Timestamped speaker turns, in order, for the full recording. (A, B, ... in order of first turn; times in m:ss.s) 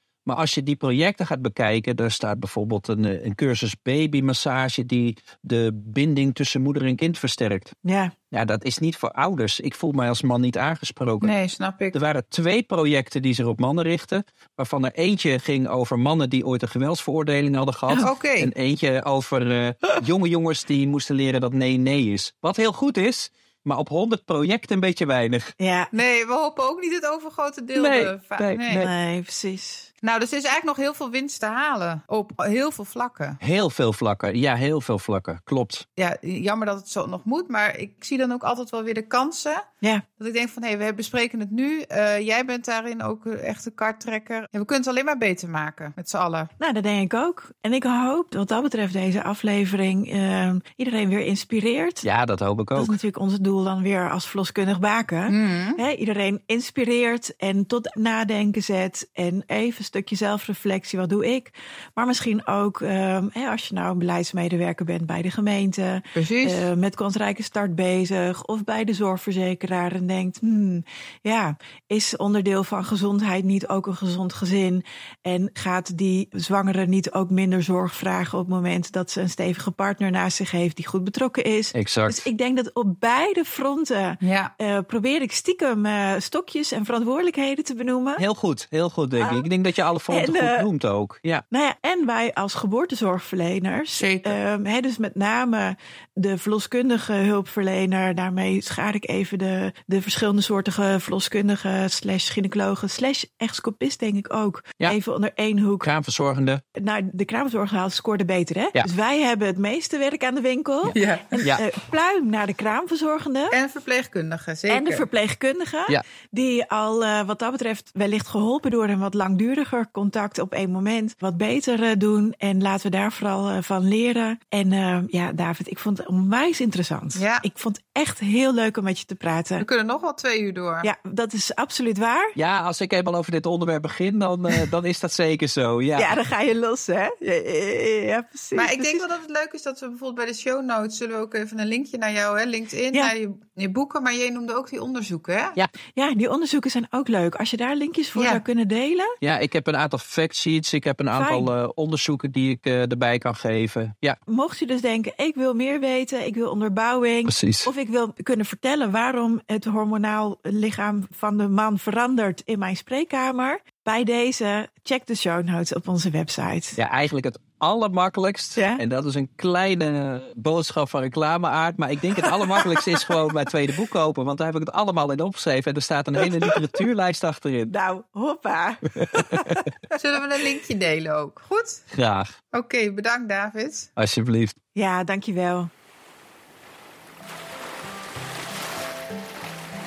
0:00.2-0:07.7 A
0:07.8-0:08.1 B
0:08.3-0:11.3 A
0:11.2-0:12.0 C
0:11.9-0:25.5 A
0:18.0-0:18.5 C
0:25.6-0:25.9 B
0:25.9-0:28.9 C
0:27.7-0:28.9 A
0:28.8-0:29.9 B
0:30.0-0:33.4 C
0:33.4-0:35.8 A
0:36.0-0:39.6 C
0:40.2-0:46.5 C
0:46.6-0:52.0 B
0:52.0-0:53.0 A
0:52.8-1:28.2 B
0:55.3-0:55.8 C
1:06.1-1:06.7 C
1:21.7-1:22.3 A
1:24.2-1:24.5 C
1:28.2-1:31.4 A
1:29.2-1:29.4 B
1:30.1-1:30.7 B
1:31.5-1:45.9 B
1:34.0-1:34.4 C
1:45.8-1:46.6 A
1:46.7-1:53.6 B
1:50.8-1:51.6 A
1:50.9-1:51.5 C
1:53.5-1:55.1 C
1:54.7-2:09.6 B
2:07.1-2:07.4 C
2:09.6-2:10.9 C
2:10.8-2:12.4 B
2:12.4-2:16.1 A
2:16.0-2:19.0 B
2:18.5-2:25.6 C
2:25.9-2:29.2 B
2:28.1-2:28.4 C
2:29.2-2:34.2 A
2:31.1-2:31.5 B
2:34.3-2:46.8 B
2:37.3-2:37.7 A
2:46.8-2:57.7 A
2:48.6-2:48.8 B
2:52.3-2:53.1 B
2:57.7-2:59.7 B
2:58.9-2:59.7 A
2:59.9-3:01.8 C
3:01.9-3:02.3 A
3:02.5-3:03.9 C
3:04.0-3:04.6 A
3:04.7-3:05.7 B